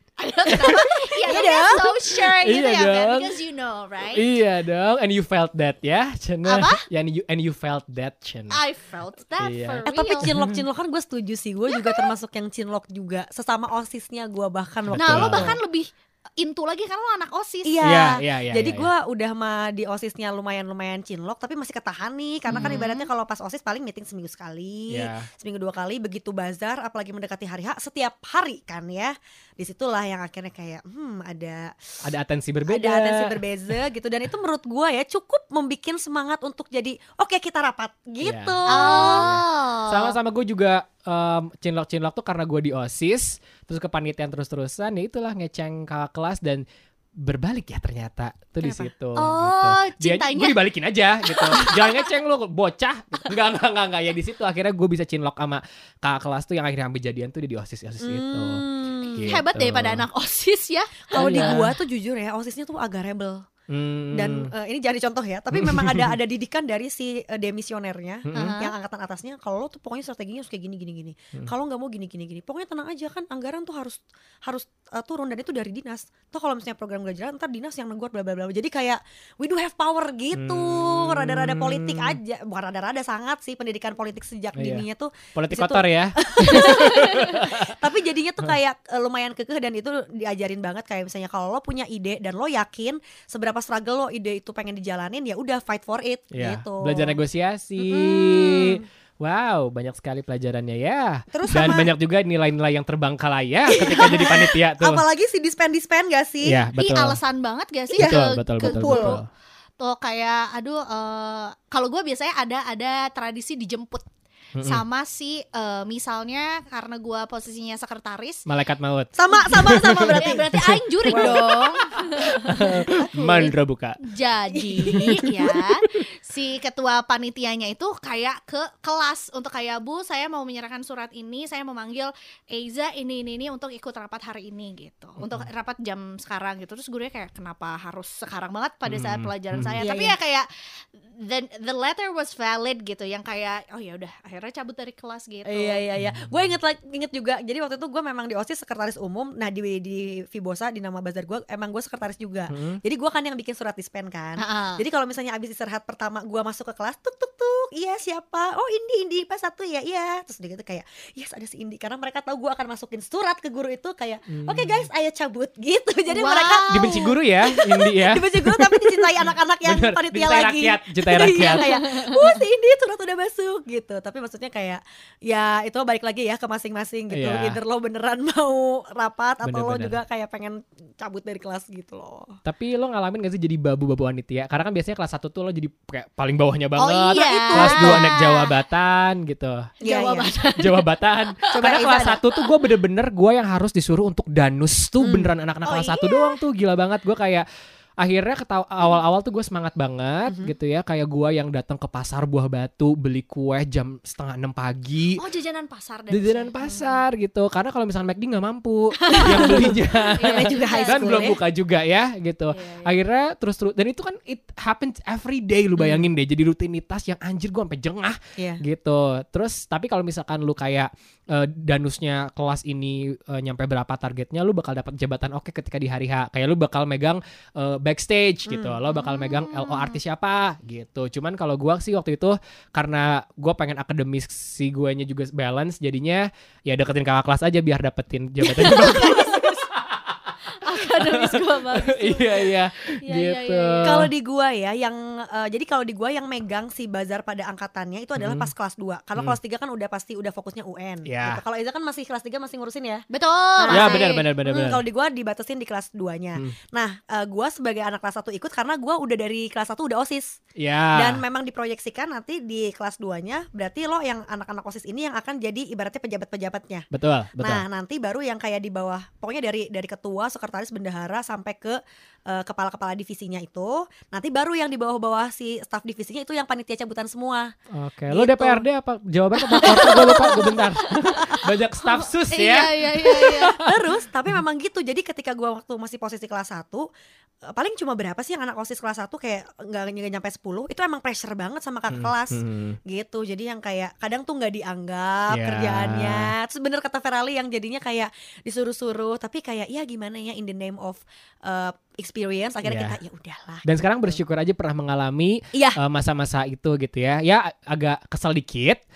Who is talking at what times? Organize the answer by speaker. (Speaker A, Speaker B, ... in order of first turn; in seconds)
Speaker A: 0.2-4.2, 6.4-6.8, 8.5-10.3, 11.7-12.1, 15.0-18.0, 22.5-23.1, 38.7-40.1, 49.1-50.6, 51.3-52.0, 59.2-61.6, 68.3-68.7, 106.8-109.2, 109.8-114.0, 114.6-118.5, 119.7-140.5, 141.1-145.8, 154.4-154.8, 166.1-167.1, 171.4-172.3, 186.8-188.5, 189.8-190.6, 195.6-196.4, 205.2-206.5, 209.1-211.3, 212.5-213.0, 228.9-230.0, 238.5-239.6, 240.6-244.1, 253.1-254.3, 279.6-280.9, 281.9-283.6
Speaker B: 0.5-0.9, 1.8-3.4, 4.1-8.6, 9.4-10.6, 14.9-15.6, 17.8-18.9, 22.5-22.8, 24.9-25.3, 32.0-33.8, 38.2-46.6, 47.2-60.1, 61.1-61.8, 63.7-64.5, 65.5-66.2, 68.2-68.6, 80.3-82.2, 84.5-87.7, 96.3-105.0, 106.4-107.2, 108.0-109.3, 114.5-114.8, 118.5-121.5, 122.4-124.0, 135.2-135.5, 138.9-139.8, 146.0-146.3, 152.5-152.8, 164.3-164.8, 166.7-171.8, 177.1-177.6, 179.4-180.0, 182.4-189.7, 190.5-197.4, 198.0-205.2, 206.1-244.1, 248.2-248.5, 251.1-251.4, 253.7-254.8, 260.6-261.2, 266.9-267.6, 277.7-283.9, 291.9-292.8, 295.3-296.3, 302.6-303.0, 303.6-308.8
Speaker C: 0.6-1.9, 9.8-15.6, 17.6-31.7, 32.7-39.4, 48.6-48.9, 58.0-59.3, 61.1-63.5, 64.1-97.2, 97.8-98.8, 101.3-101.9, 103.7-106.6, 107.9-109.2, 119.2-123.5, 124.5-125.6, 139.8-140.1, 145.4-182.4, 187.3-188.1, 189.8-190.6, 191.5-192.2, 195.0-195.3, 200.3-200.5, 206.6-207.0, 209.1-211.4, 215.8-216.1, 218.4-218.6, 228.4-228.8, 243.8-253.0, 253.6-260.4, 260.9-266.9, 267.4-277.5, 278.1-278.6, 279.5-281.5, 283.1-286.9, 287.4-304.2, 305.5-305.8